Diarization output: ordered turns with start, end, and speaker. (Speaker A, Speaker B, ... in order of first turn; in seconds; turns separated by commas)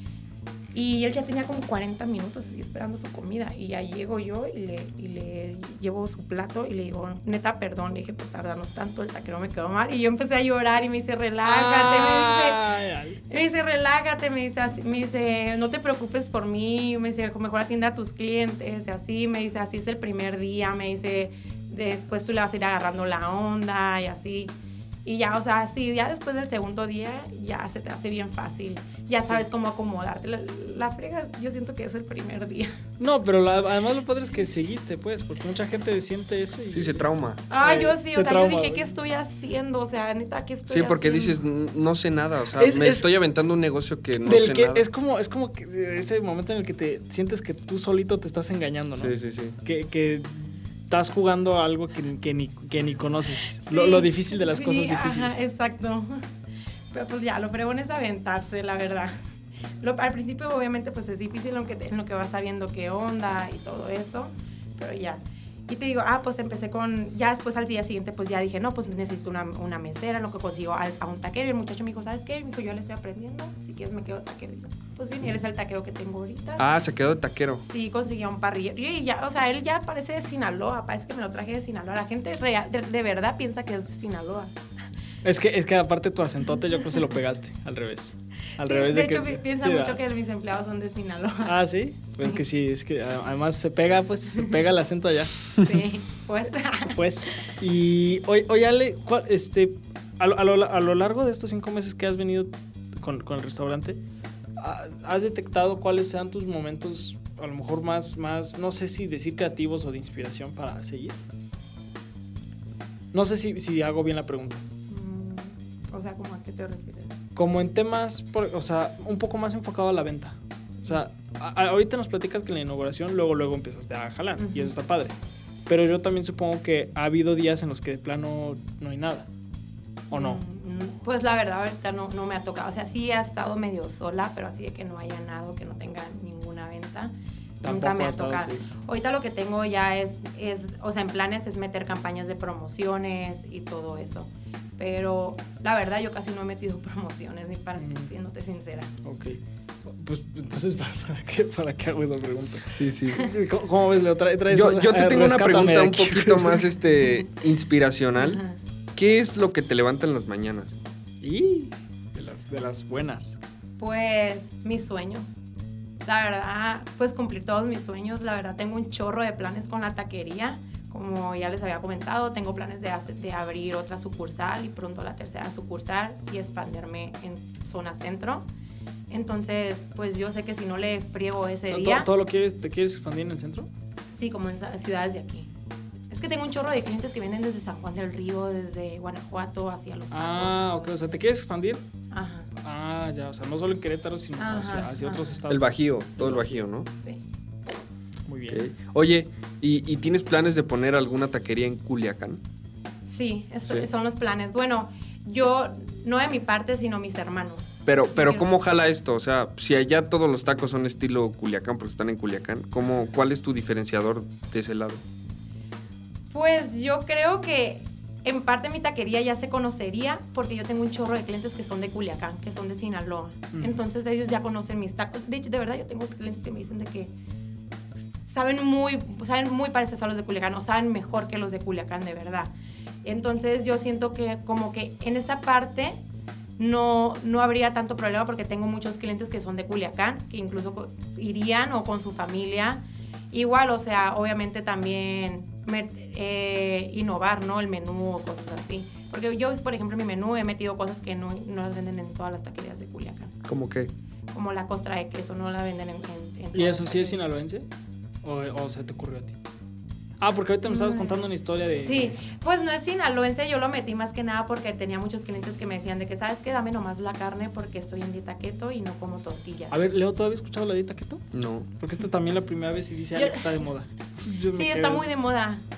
Speaker A: 0.7-12.6, Speaker B: 11.5-13.2, Speaker A: 13.3-24.5, Speaker A: 25.0-32.8, Speaker B: 33.0-37.0, Speaker C: 36.7-37.4, Speaker A: 37.5-41.4, Speaker B: 37.6-38.9, Speaker C: 40.7-44.9, Speaker B: 42.6-43.0, Speaker B: 44.2-55.3, Speaker C: 48.9-49.5, Speaker A: 53.6-56.2, Speaker A: 56.9-59.2, Speaker A: 59.8-76.6, Speaker C: 76.6-77.6, Speaker A: 77.6-84.5, Speaker B: 85.2-90.0, Speaker A: 88.6-91.5, Speaker B: 91.4-95.3, Speaker A: 92.2-92.4, Speaker A: 95.6-97.0, Speaker B: 96.9-104.0, Speaker B: 104.6-111.2, Speaker B: 113.1-114.6, Speaker A: 114.9-117.2, Speaker B: 117.3-125.2, Speaker A: 124.4-124.7, Speaker B: 125.7-129.3, Speaker A: 130.1-137.1, Speaker B: 130.1-130.4, Speaker B: 137.6-138.7, Speaker A: 137.6-148.9, Speaker B: 147.8-148.1, Speaker B: 149.0-156.7, Speaker C: 152.7-153.3, Speaker C: 154.5-158.4, Speaker A: 158.2-158.6, Speaker C: 158.9-160.8, Speaker B: 161.2-163.4, Speaker A: 163.8-165.4, Speaker A: 166.0-178.5, Speaker A: 179.1-182.1, Speaker B: 181.7-183.7, Speaker A: 184.1-185.5, Speaker A: 186.1-190.9, Speaker B: 190.1-191.8, Speaker A: 192.1-192.5, Speaker B: 192.6-196.4, Speaker A: 194.4-195.4, Speaker C: 195.5-196.9, Speaker A: 196.2-197.2, Speaker B: 198.2-198.7, Speaker C: 198.5-202.4, Speaker A: 203.0-208.5, Speaker C: 207.8-215.0, Speaker A: 216.3-227.1, Speaker B: 223.5-223.8, Speaker A: 228.2-232.5, Speaker A: 233.0-236.0, Speaker A: 236.6-253.3, Speaker C: 253.4-253.9, Speaker A: 254.3-257.3, Speaker B: 256.5-257.7, Speaker B: 258.2-259.3, Speaker B: 260.2-262.2, Speaker A: 260.7-269.8, Speaker B: 269.7-271.3, Speaker C: 271.3-271.7, Speaker B: 271.8-275.0, Speaker A: 273.1-273.5, Speaker A: 274.5-275.6